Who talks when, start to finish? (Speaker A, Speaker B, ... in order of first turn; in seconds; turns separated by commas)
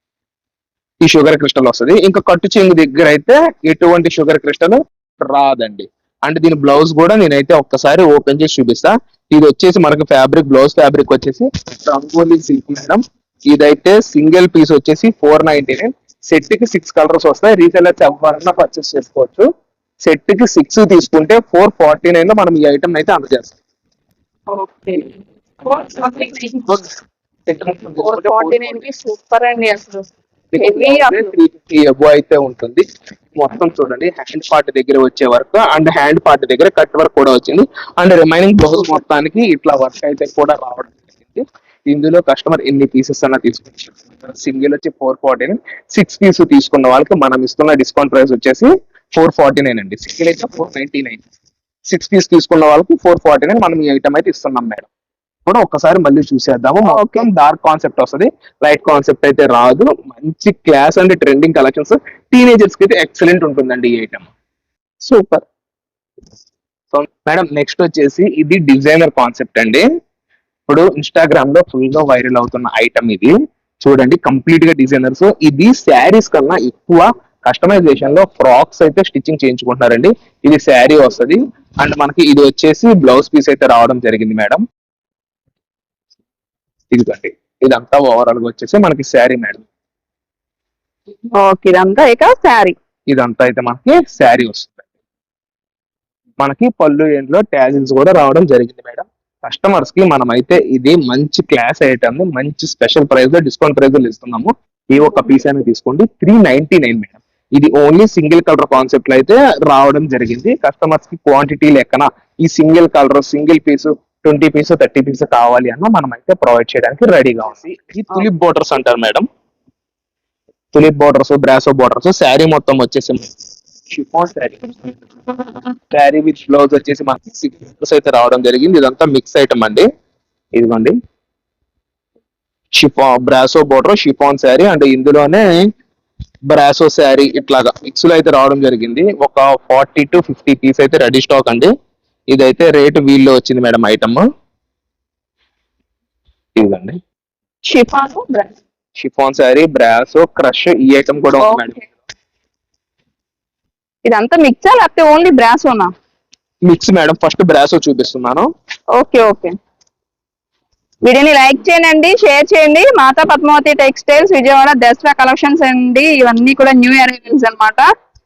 Speaker A: 1.0-19.5, Speaker A: 20.0-23.6, Speaker B: 24.5-25.1, Speaker B: 25.7-26.8, Speaker A: 27.5-28.8, Speaker B: 28.0-30.1, Speaker A: 30.5-51.2, Speaker B: 30.6-31.3, Speaker A: 51.9-54.9, Speaker A: 55.5-64.3, Speaker B: 56.9-57.3, Speaker B: 65.0-65.4, Speaker A: 66.9-69.8, Speaker A: 70.7-84.6, Speaker A: 86.9-89.6, Speaker B: 91.4-92.7, Speaker A: 93.1-94.8, Speaker A: 96.4-119.2, Speaker A: 120.7-123.3, Speaker A: 123.9-124.9, Speaker A: 125.9-129.9, Speaker A: 130.5-130.9, Speaker A: 132.8-135.5, Speaker A: 136.5-141.7, Speaker A: 142.3-144.2, Speaker A: 146.6-147.0, Speaker B: 147.7-148.6, Speaker A: 149.0-151.8, Speaker B: 151.4-151.7, Speaker B: 154.1-155.9, Speaker A: 156.7-158.5, Speaker B: 159.0-159.5, Speaker B: 161.1-167.8